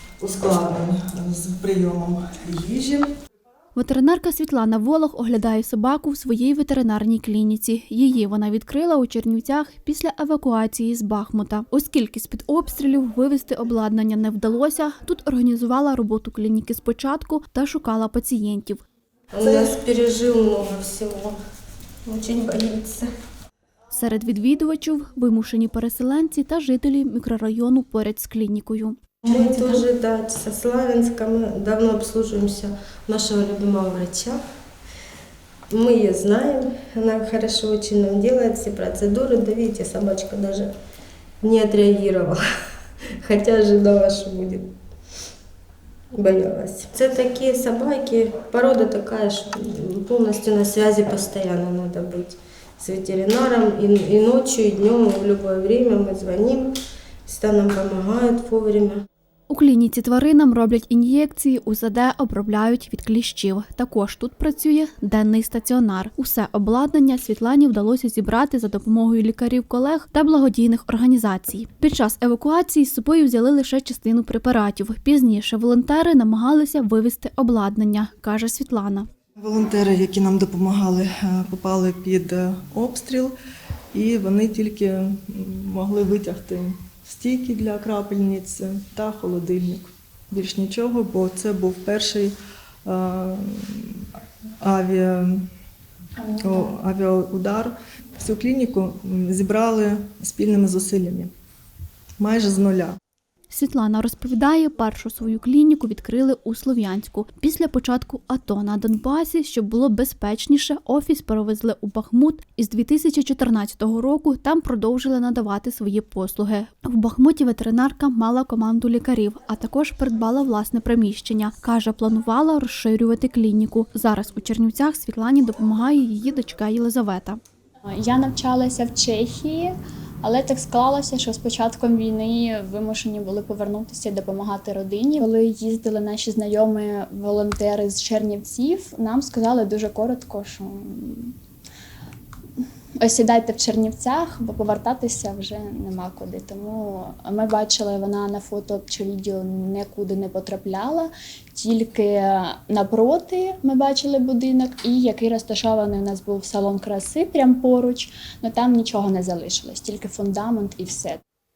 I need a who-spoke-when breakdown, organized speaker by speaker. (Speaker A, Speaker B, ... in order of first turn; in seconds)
Speaker A: 0.2-3.1, 19.4-19.7, 79.4-83.3, 83.9-92.3, 92.9-94.1, 94.6-95.5, 96.4-101.3, 102.2-103.0
Speaker B: 3.8-18.8, 23.9-29.8, 59.5-79.1, 103.5-127.4
Speaker C: 19.3-21.4, 22.1-23.1, 29.2-34.4, 35.7-40.7, 41.4-42.4, 43.2-44.7, 46.1-56.7, 57.3-59.0
Speaker D: 96.2-96.8, 128.0-141.3, 143.0-161.2